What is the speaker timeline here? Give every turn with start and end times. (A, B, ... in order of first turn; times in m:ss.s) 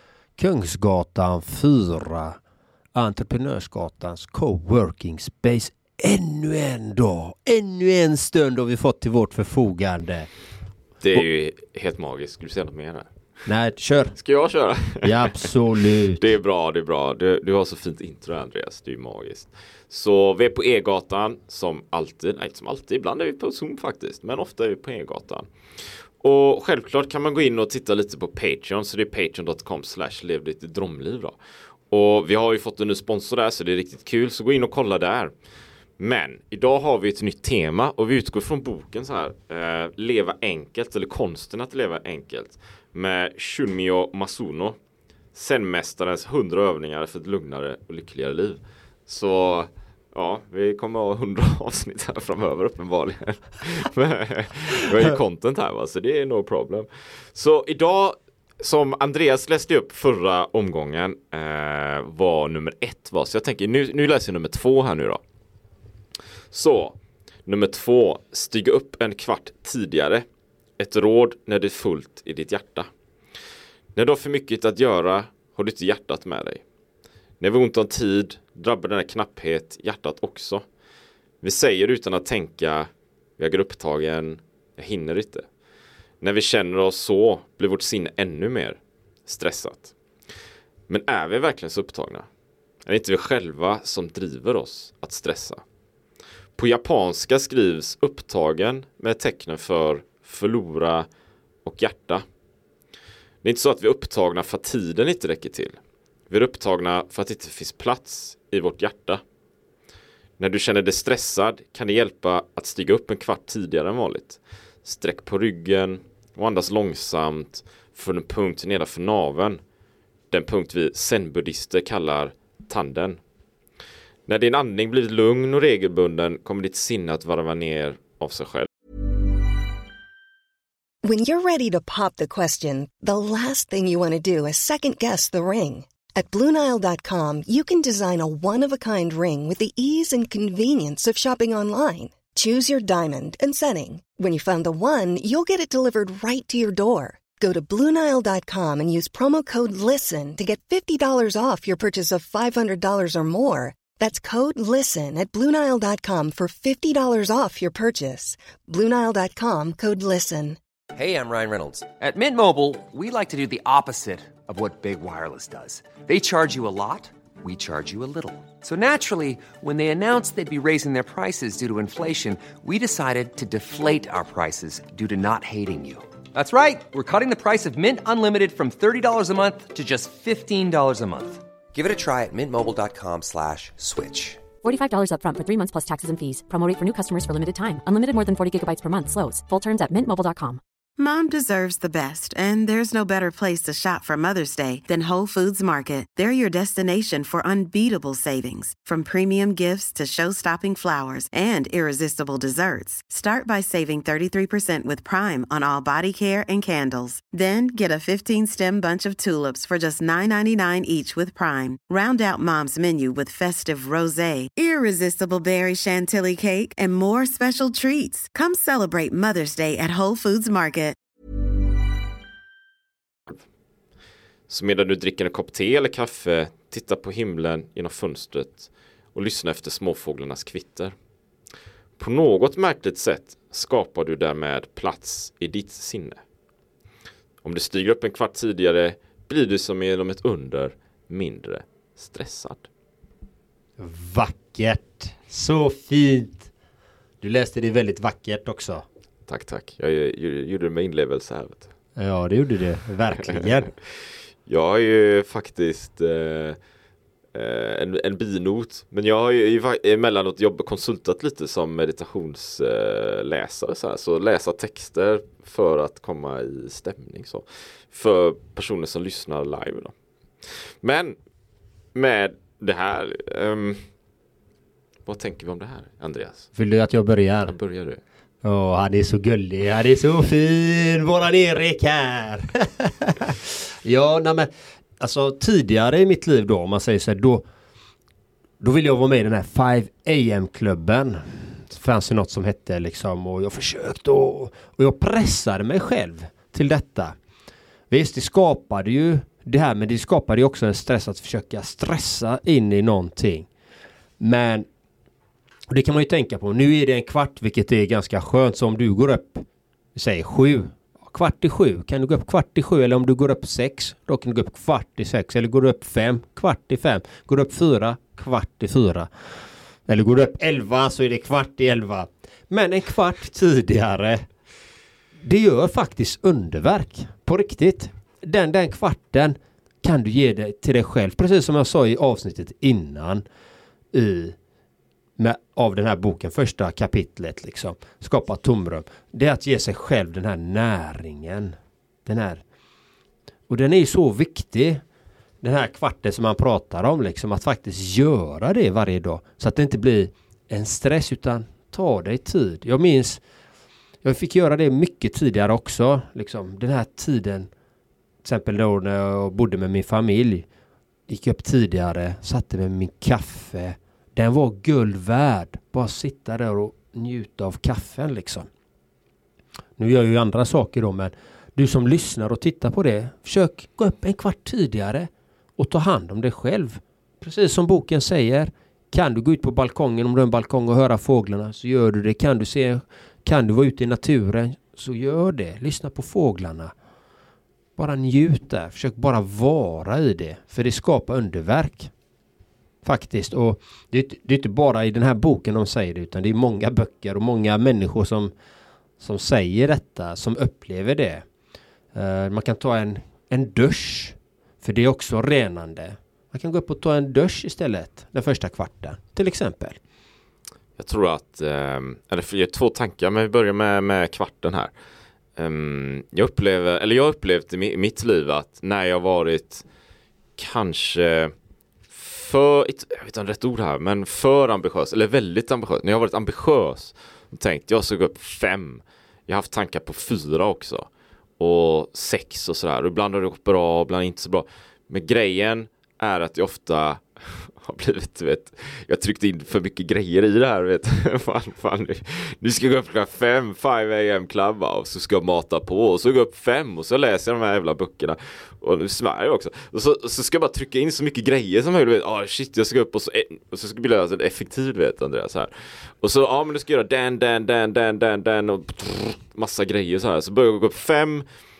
0:00.4-0:02.4 A
0:03.0-0:10.3 A
0:11.0-0:13.1 B
0:13.5-0:14.2 A
0:14.2-0:15.5 B
0:15.0-0:16.3 A
0:16.2-0:25.5 B
0:26.2-0:31.4 B
0:31.9-0:35.3 B
0:36.0-0:44.8 B
0:45.3-1:05.2 B
1:06.5-1:10.3 B
1:10.8-1:12.9 B
1:14.0-1:16.6 B
1:17.4-1:20.6 B
1:21.4-1:25.4 B
1:26.2-1:29.9 B
1:30.9-1:32.3 B
1:32.9-1:35.6 B
1:36.6-1:41.1 B
1:41.6-1:42.2 B
1:43.4-1:45.8 B
1:46.3-1:49.2 B
1:50.4-1:59.6 B
2:00.3-2:03.2 B
2:04.3-2:08.7 B
2:11.0-2:40.6 C
2:40.9-3:04.5 D
3:04.6-3:10.6 E
3:11.0-3:41.0 F
3:44.5-3:50.9 B
3:52.0-3:56.2 B
3:57.4-4:02.7 B
4:03.8-4:06.5 A
4:07.2-4:08.8 A
4:09.3-4:11.7 B
4:12.0-4:13.7 A
4:14.5-4:16.6 B
4:17.3-4:29.9 B
4:30.8-4:31.2 B
4:32.0-4:33.8 B
4:35.1-4:36.5 B
4:36.6-4:37.6 A
4:37.5-4:38.0 B
4:38.4-4:47.4 A
4:48.6-4:57.2 A
4:57.9-5:03.5 A
5:04.2-5:04.7 A
5:05.7-5:19.1 A
5:19.9-5:24.3 A
5:25.2-5:33.2 A
5:33.9-5:34.4 A
5:35.2-5:42.4 A
5:43.5-5:44.8 A
5:45.4-5:53.2 A
5:54.0-5:57.5 A
5:58.2-6:00.5 A
6:01.1-6:08.5 A
6:09.8-6:26.7 A
6:27.8-6:31.9 A
6:32.8-6:38.3 A
6:39.0-6:41.2 A
6:41.9-6:49.8 A
6:50.8-6:54.7 B
6:55.4-6:59.6 B
7:00.4-7:01.3 B
7:01.9-7:10.9 B
7:11.4-7:41.3 B